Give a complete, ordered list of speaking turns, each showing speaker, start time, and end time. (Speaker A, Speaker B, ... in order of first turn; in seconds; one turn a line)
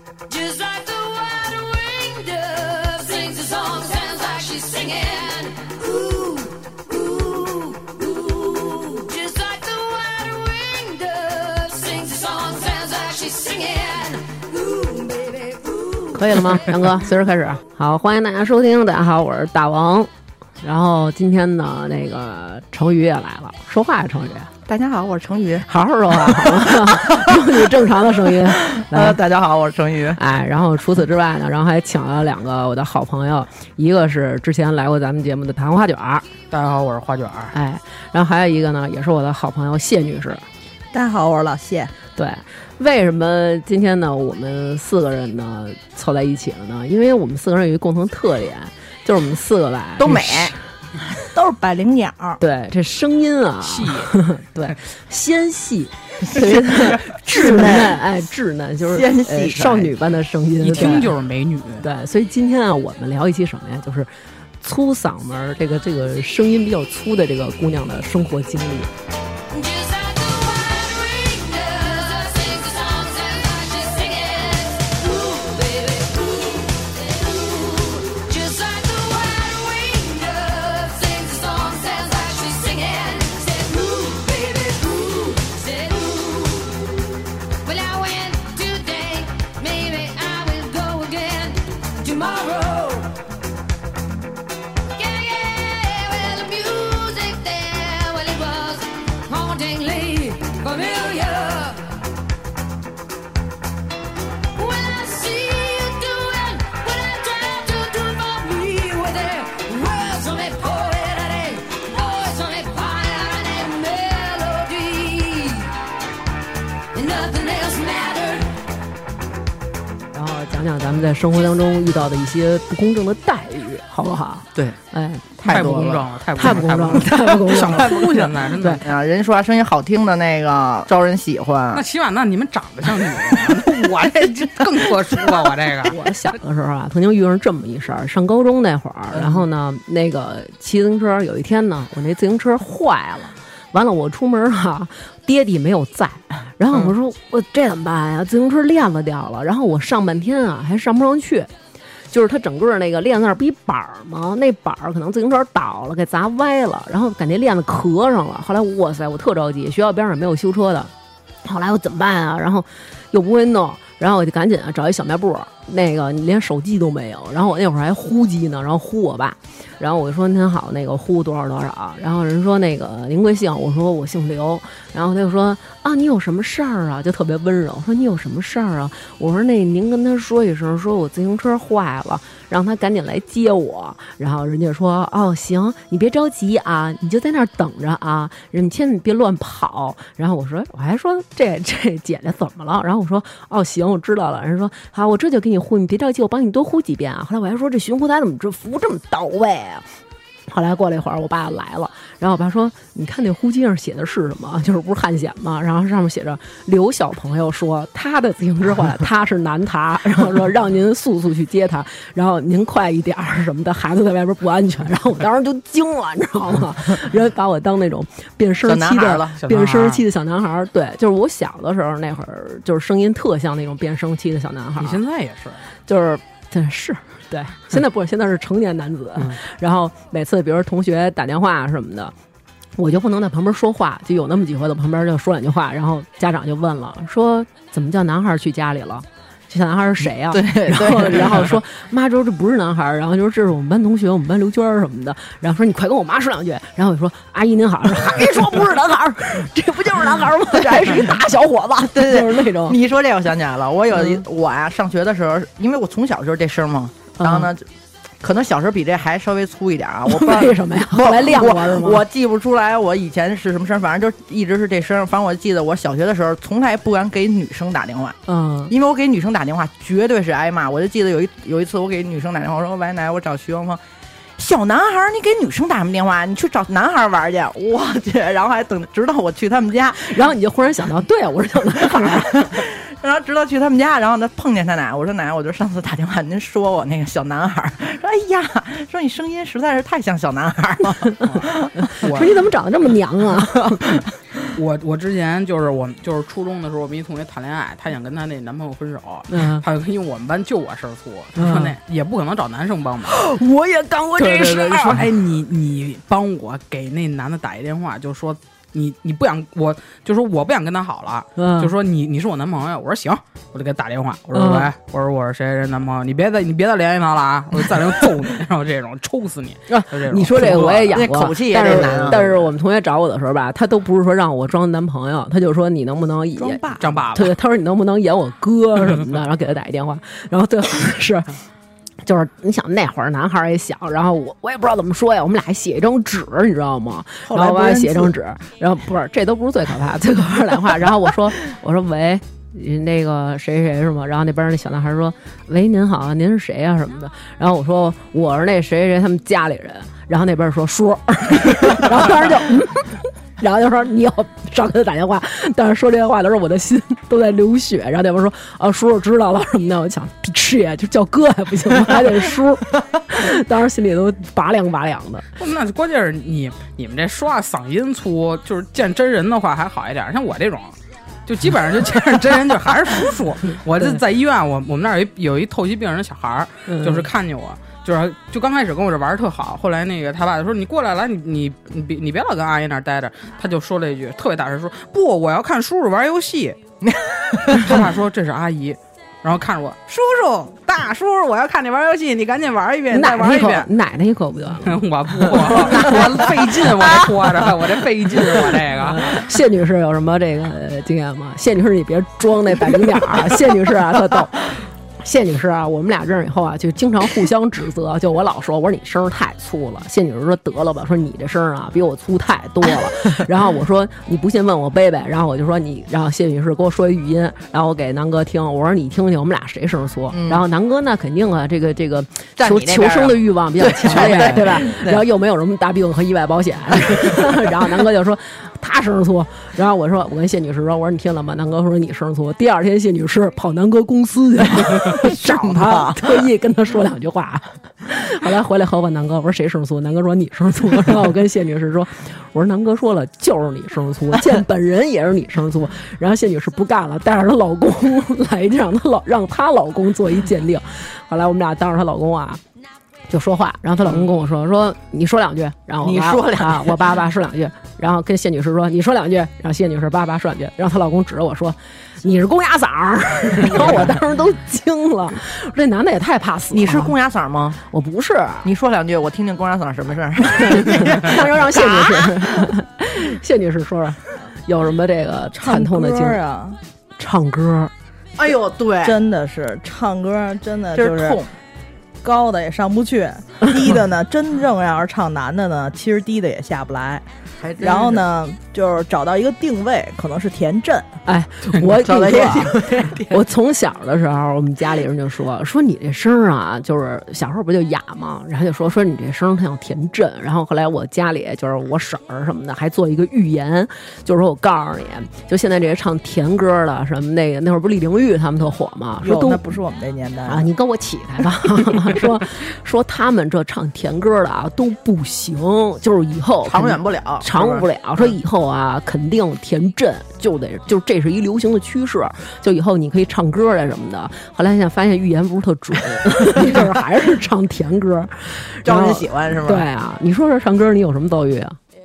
Speaker A: 0.3-16.8
Speaker B: 16.1-24.5
Speaker C: 24.6-30.2
Speaker B: 25.6-29.2
Speaker B: 30.1-36.2
Speaker D: 36.5-37.5
Speaker B: 37.5-40.4
Speaker E: 40.9-41.9
Speaker B: 42.1-50.6
Speaker C: 50.0-50.5
Speaker E: 51.3-52.4
Speaker B: 52.4-61.1
Speaker D: 53.6-54.1
Speaker E: 57.3-57.9
Speaker C: 57.4-57.9
Speaker C: 58.9-59.9
Speaker D: 60.6-61.8
Speaker B: 61.8-68.9
Speaker A: 69.5-87.0
Speaker A: 87.6-93.2
Speaker A: 95.0-102.0
Speaker A: 104.5-115.8
Speaker A: 116.9-118.5
Speaker B: 120.1-128.0
Speaker C: 125.4-131.8
Speaker D: 125.4-128.8
Speaker D: 131.7-135.9
Speaker C: 133.2-133.6
Speaker B: 135.9-151.5
Speaker C: 139.1-139.4
Speaker B: 152.1-160.9
Speaker B: 161.4-199.8
Speaker B: 200.5-225.0
Speaker C: 218.6-219.4
Speaker D: 219.4-220.0
Speaker D: 224.8-225.6
Speaker B: 225.9-232.1
Speaker B: 232.8-252.8
Speaker C: 240.0-241.6
Speaker C: 251.9-257.6
Speaker B: 253.9-254.2
Speaker B: 257.2-257.5
Speaker C: 258.2-268.2
Speaker B: 260.1-262.0
Speaker B: 268.3-268.7
Speaker C: 268.7-273.8
Speaker C: 274.4-280.2
Speaker B: 280.0-282.6
Speaker C: 281.9-291.7
Speaker D: 291.3-292.3
Speaker B: 291.9-293.9
Speaker D: 294.5-303.2
Speaker B: 299.3-299.6
Speaker B: 301.4-301.7
Speaker B: 303.1-305.1
Speaker D: 304.2-321.1
Speaker B: 311.4-311.7
Speaker B: 314.3-314.7
Speaker B: 319.7-326.6
Speaker C: 320.4-322.4
Speaker E: 326.4-327.0
Speaker D: 326.8-327.3
Speaker B: 327.1-331.3
Speaker B: 332.0-365.2
Speaker E: 337.2-338.1
Speaker D: 365.4-386.6
Speaker B: 376.7-377.1
Speaker C: 386.8-387.8
Speaker D: 387.5-389.8
Speaker D: 390.5-393.7
Speaker B: 392.9-396.0
Speaker D: 394.6-399.2
Speaker C: 395.5-397.1
Speaker B: 398.8-452.4
Speaker C: 420.1-420.4
Speaker C: 422.4-425.0
Speaker D: 423.9-424.5
Speaker C: 426.9-427.3
Speaker C: 434.7-436.3
Speaker B: 453.1-466.9
Speaker C: 455.8-456.9
Speaker C: 466.5-467.6
Speaker B: 467.7-468.5
Speaker C: 468.4-472.5
Speaker B: 470.4-476.2
Speaker E: 475.3-476.6
Speaker B: 477.0-477.7
Speaker C: 478.2-479.0
Speaker E: 478.8-481.2
Speaker C: 480.7-481.3
Speaker E: 482.0-487.1
Speaker C: 487.4-488.1
Speaker E: 487.6-490.9
Speaker B: 491.1-509.5
Speaker C: 491.6-493.2
Speaker E: 509.0-510.5
Speaker B: 510.3-531.6
Speaker C: 516.4-518.1
Speaker C: 528.6-529.6